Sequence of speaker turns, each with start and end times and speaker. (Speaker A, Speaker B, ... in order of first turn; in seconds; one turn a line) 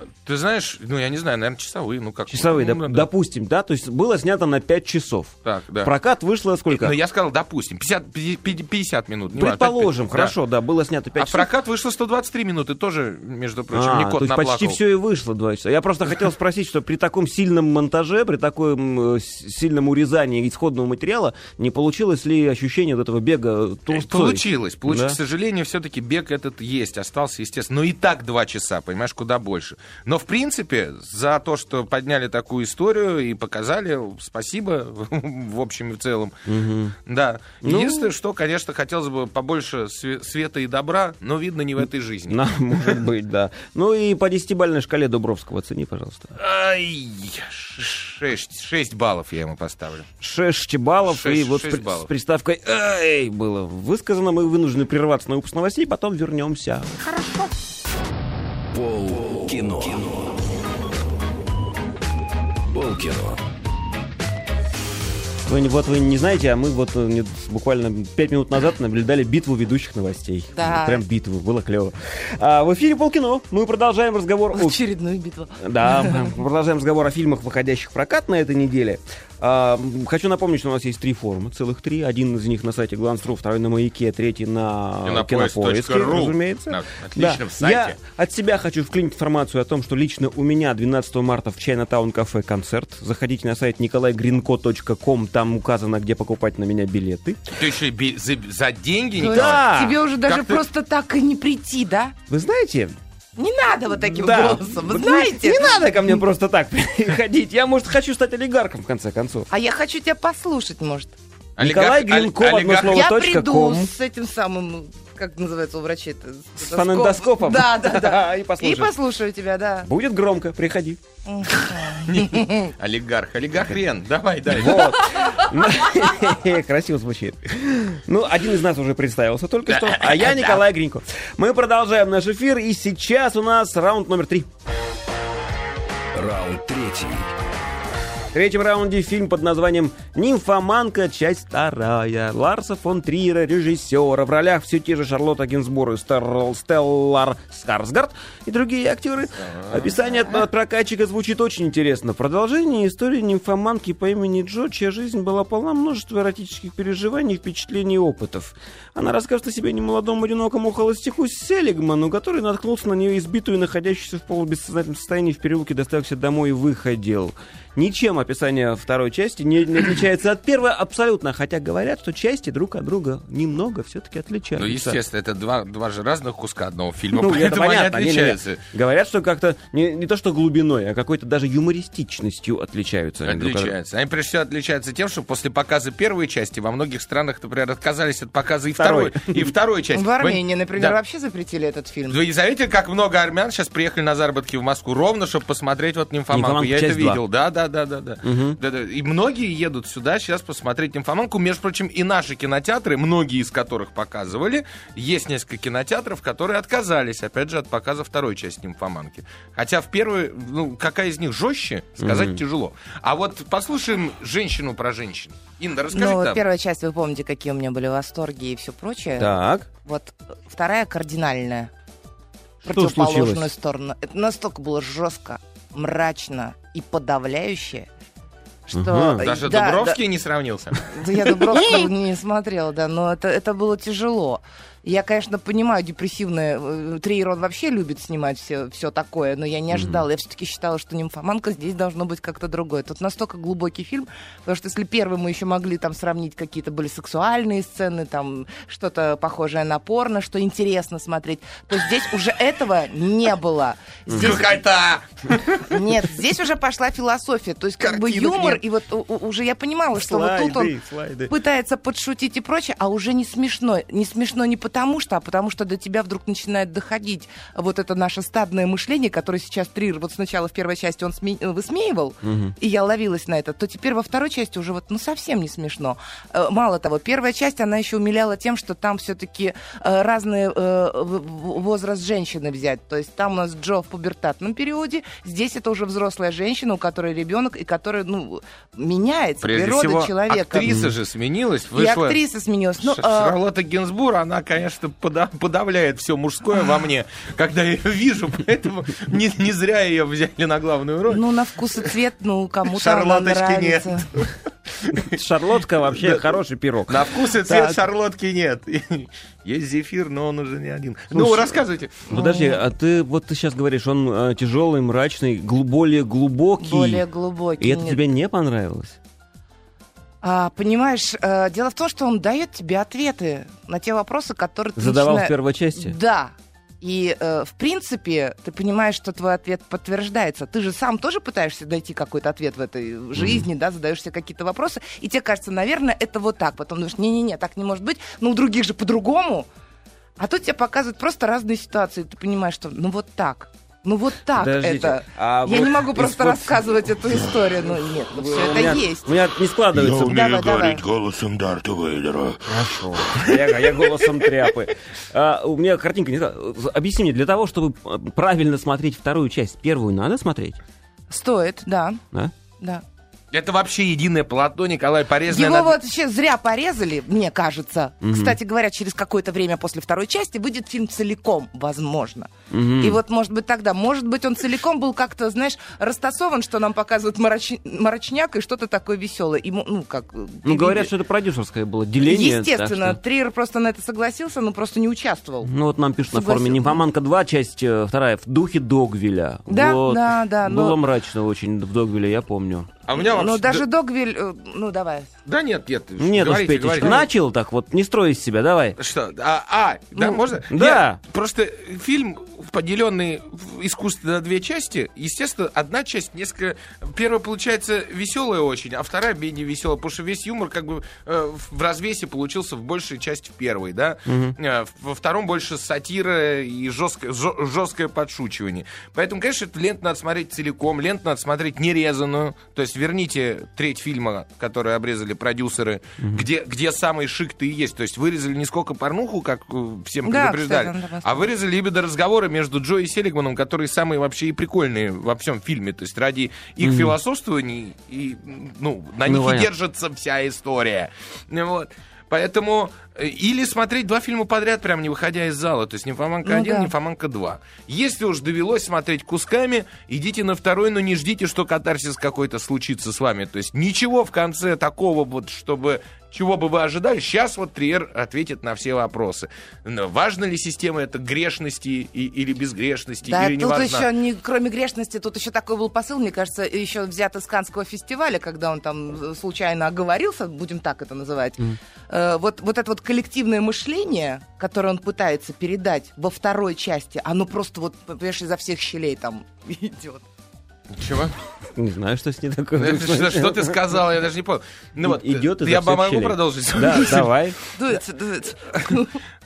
Speaker A: 0.2-3.1
Speaker B: 2.3-7.0
Speaker A: 5.5-5.9
Speaker A: 6.7-10.3
Speaker B: 9.3-11.5
Speaker A: 11.2-14.8
Speaker B: 13.7-25.2
Speaker A: 23.9-36.3
Speaker B: 36.5-37.0
Speaker A: 37.1-42.4
Speaker B: 37.6-38.1
Speaker B: 42.3-46.3
Speaker A: 46.4-50.1
Speaker B: 50.2-57.0
Speaker A: 51.0-52.1
Speaker C: 58.7-60.4
Speaker C: 62.7-63.4
Speaker B: 65.5-74.8
Speaker D: 70.5-71.0
Speaker D: 74.5-76.4
Speaker B: 75.6-97.5
Speaker A: 85.0-88.0
Speaker A: 97.5-99.7
Speaker D: 99.2-102.2
Speaker B: 99.2-100.0
Speaker A: 100.2-100.6
Speaker B: 102.3-103.0
Speaker D: 103.4-106.2
Speaker B: 104.0-109.5
Speaker D: 109.5-111.2
Speaker A: 111.6-113.1
Speaker B: 111.6-113.9
Speaker D: 112.9-119.9
Speaker B: 116.6-118.9
Speaker B: 119.8-121.0
Speaker D: 121.3-122.7
Speaker A: 121.9-125.0
Speaker B: 124.5-134.5
Speaker A: 129.7-130.6
Speaker C: 136.2-137.3
Speaker B: 138.3-175.0
Speaker A: 149.5-149.9
Speaker A: 174.6-178.6
Speaker B: 177.2-183.8
Speaker A: 183.3-190.9
Speaker B: 188.8-189.5
Speaker D: 189.9-192.2
Speaker A: 192.1-216.4
Speaker B: 196.3-197.2
Speaker B: 198.2-198.6
Speaker B: 212.0-212.4
Speaker D: 215.9-221.7
Speaker B: 219.2-219.7
Speaker D: 222.6-227.9
Speaker B: 222.7-223.5
Speaker D: 228.7-230.0
Speaker B: 228.7-229.2
Speaker A: 229.2-231.4
Speaker D: 230.9-254.6
Speaker B: 239.7-240.0
Speaker B: 254.1-254.4
Speaker A: 254.1-255.8
Speaker D: 255.7-260.7
Speaker A: 257.8-258.6
Speaker B: 259.9-261.3
Speaker D: 261.3-290.7
Speaker B: 272.2-272.6
Speaker A: 289.4-292.2
Speaker B: 290.6-290.9
Speaker D: 291.8-293.4
Speaker A: 292.8-301.9
Speaker D: 301.1-304.1
Speaker A: 302.7-305.2
Speaker B: 305.0-307.8
Speaker A: 306.0-306.3
Speaker A: 306.9-312.1
Speaker B: 311.1-317.0
Speaker D: 312.1-312.6
Speaker D: 316.6-318.0
Speaker B: 317.6-319.0
Speaker D: 320.2-339.5
Speaker B: 324.8-326.0
Speaker B: 333.2-333.4
Speaker D: 340.2-349.1
Speaker B: 344.3-346.6
Speaker B: 348.1-350.2
Speaker E: 349.7-352.4
Speaker D: 350.0-350.8
Speaker B: 352.5-360.6
Speaker A: 353.2-354.1
Speaker D: 361.1-362.0
Speaker A: 363.3-365.8
Speaker D: 365.3-380.9
Speaker B: 368.0-368.4
Speaker B: 372.5-373.0
Speaker B: 380.4-383.0
Speaker D: 382.0-385.5
Speaker B: 385.4-392.7
Speaker D: 386.1-386.8
Speaker D: 389.5-390.8
Speaker A: 392.9-393.6
Speaker D: 392.9-395.1
Speaker A: 395.3-397.1
Speaker B: 396.0-398.8
Speaker A: 398.8-463.9
Speaker B: 400.5-401.0
Speaker B: 414.1-414.4
Speaker D: 430.1-431.3
Speaker B: 436.6-437.0
Speaker B: 439.1-439.5
Speaker D: 446.2-446.7
Speaker D: 463.1-480.1
Speaker A: 480.7-481.1
Speaker B: 481.6-483.6
Speaker A: 482.6-487.1
Speaker B: 484.8-487.4
Speaker D: 487.5-489.0